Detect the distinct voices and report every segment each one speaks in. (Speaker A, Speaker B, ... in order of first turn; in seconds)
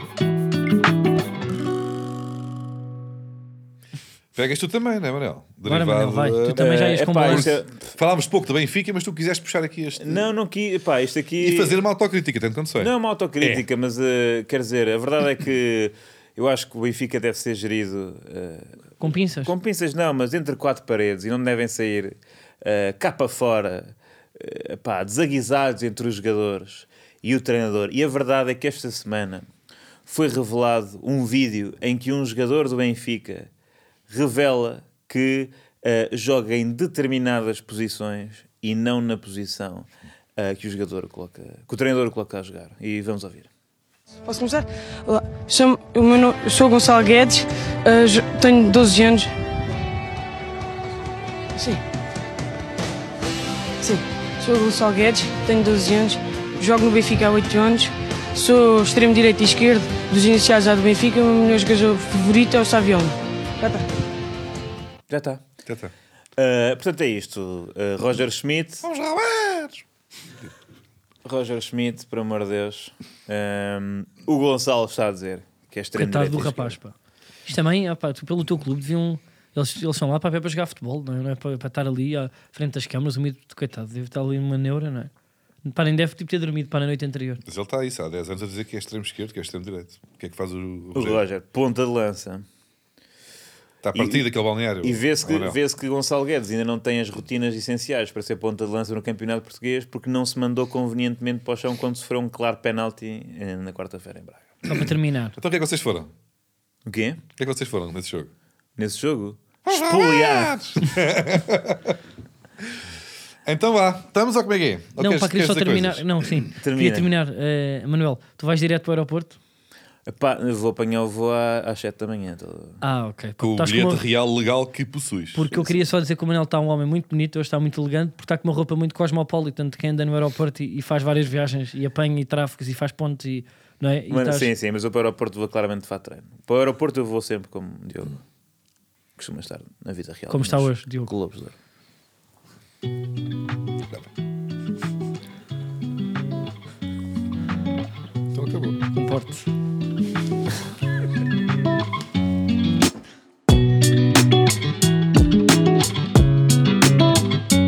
Speaker A: 4.3-10.3, 11.4-13.7, 65.7-65.9, 68.8-69.8, 87.4-91.2, 93.8-95.6, 104.7-106.1, 107.4-108.3, 109.7-112.0, 113.5-116.5, 123.4-125.6, 148.3-148.8
Speaker B: 5.7-7.5, 19.0-19.5, 76.0-76.9, 77.5-85.1, 85.7-87.4, 104.6-105.4, 115.0-119.4, 122.8-124.0, 125.3-134.5, 140.3-141.1, 148.9-149.5
Speaker C: 6.6-7.8, 10.0-11.8, 12.8-29.5, 30.1-33.5, 34.1-43.5, 65.1-65.4, 66.4-68.8, 71.2-76.8, 91.0-92.5, 93.9-94.3, 94.8-104.5, 106.9-107.2, 108.8-110.6, 116.6-117.2, 120.1-122.8, 134.1-138.2, 139.2-141.6
Speaker D: 44.3-49.3, 51.6-51.8, 53.8-63.9